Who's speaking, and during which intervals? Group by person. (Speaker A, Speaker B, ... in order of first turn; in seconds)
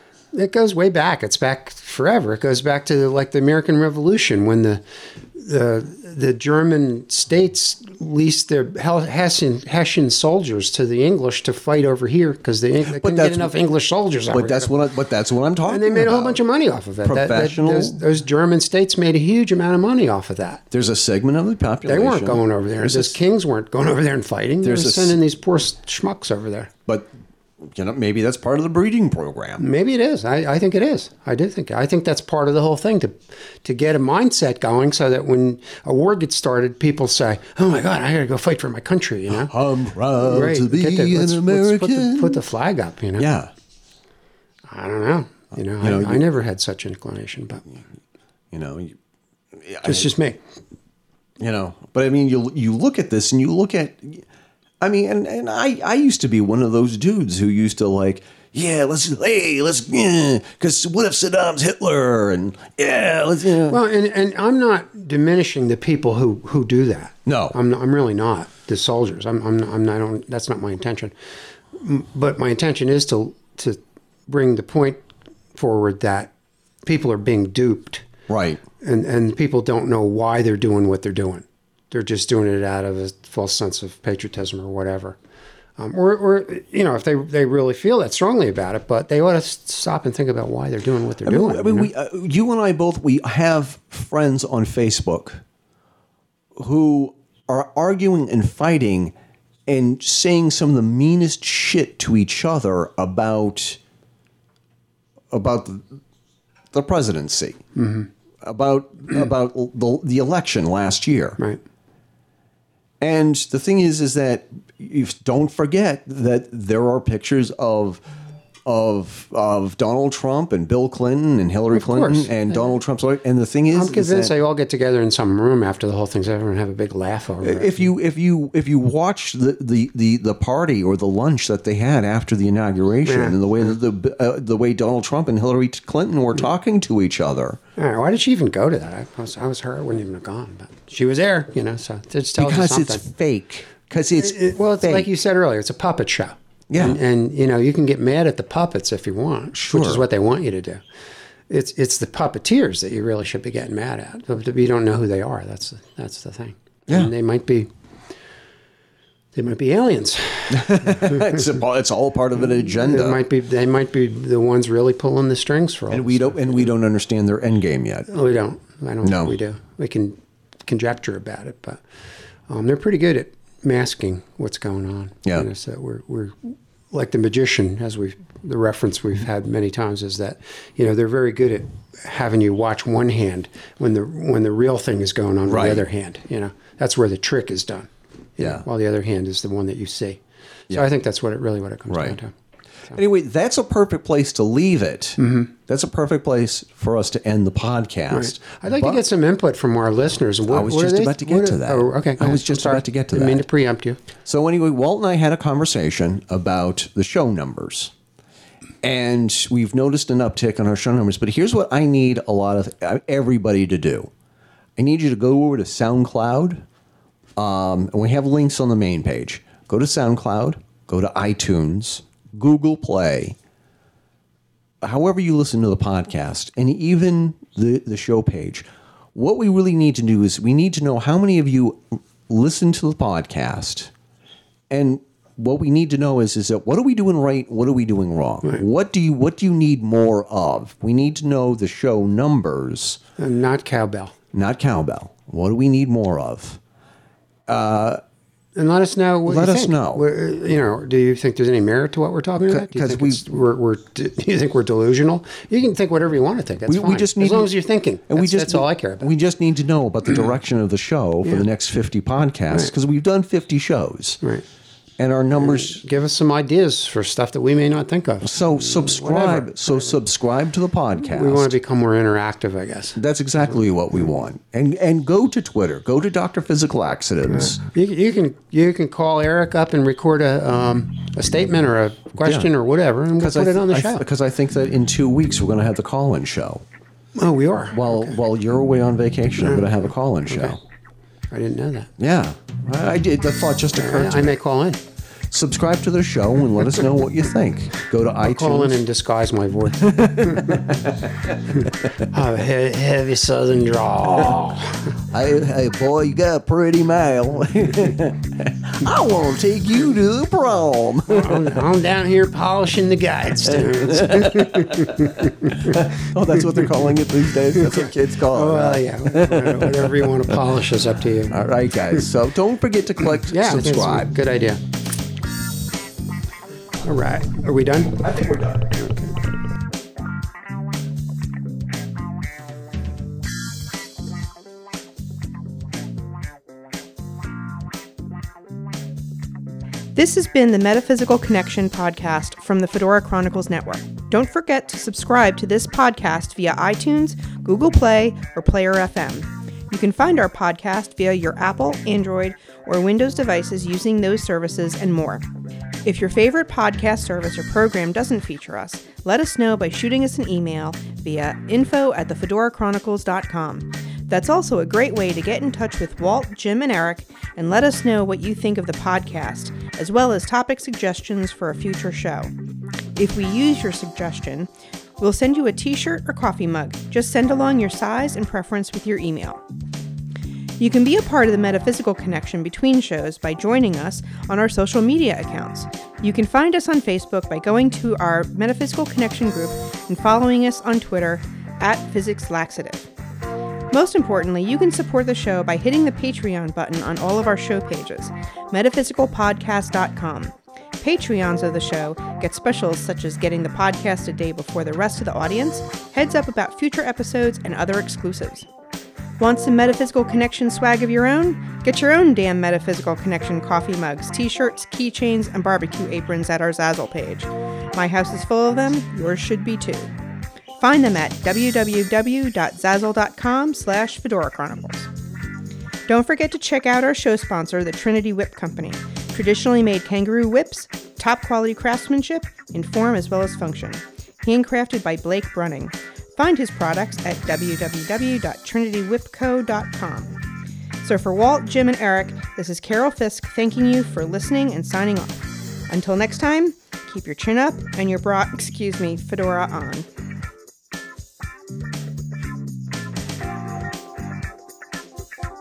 Speaker A: 0.3-14.7, 15.7-20.6, 21.9-26.7, 29.6-39.5, 40.2-43.3, 44.7-47.6, 49.8-50.4, 63.7-71.1, 71.7-75.0, 75.5-76.3, 76.8-78.0, 78.8-85.2, 85.8-91.9, 107.8-108.1, 121.7-122.7, 123.7-127.9, 133.0-133.8, 137.8-143.0, 144.2-150.8, 151.5-157.7, 159.3-161.5, 162.5-166.7, 168.1-171.8, 172.5-192.3, 195.2-195.5, 198.1-204.0, 243.2-244.1, 248.6-259.1, 265.4-270.0, 271.1-273.0, 277.3-284.0, 287.1-288.2, 289.4-290.6, 291.3-291.9, 293.7-294.8, 298.2-300.7, 301.6-304.9, 311.1-315.8, 317.5-321.4, 323.2-324.6, 326.8-328.0
Speaker B: 12.9-13.5, 14.3-16.4, 17.0-18.0, 20.7-23.2, 24.6-25.2, 26.9-27.1, 27.6-29.6, 39.4-42.4, 43.2-43.5, 45.8-46.2, 48.5-49.0, 49.5-50.1, 51.4-54.2, 54.8-63.8, 67.2-67.5, 78.3-78.6, 91.2-95.4, 96.5-99.1, 99.7-103.8, 105.3-106.0, 106.7-107.6, 108.4-111.4, 113.0-118.0, 118.7-124.3, 127.4-137.6, 142.4-145.1, 146.7-147.0, 149.5-150.0, 160.5-163.2, 165.9-168.1, 169.0-169.3, 185.4-185.8, 188.4-188.6, 191.9-192.2, 192.9-199.0, 200.5-203.4, 204.2-207.9, 208.8-214.1, 214.8-216.6, 217.3-223.4, 224.8-233.9, 234.7-243.0, 244.3-246.6, 247.5-248.0, 249.2-250.0, 252.4-253.3, 256.7-257.5, 258.1-264.2, 265.0-265.8, 268.2-271.5, 273.0-277.6, 282.2-282.5, 283.2-286.6, 287.7-290.6, 292.0-294.4, 295.3-298.8, 299.8-302.0, 305.1-311.6, 313.5-320.4, 321.3-324.1, 328.0-328.8
Speaker C: 339.9-355.2, 355.8-372.3, 372.9-379.4, 380.6-392.9, 393.7-408.5, 409.2-419.9, 420.6-424.9, 425.9-440.2, 440.8-449.9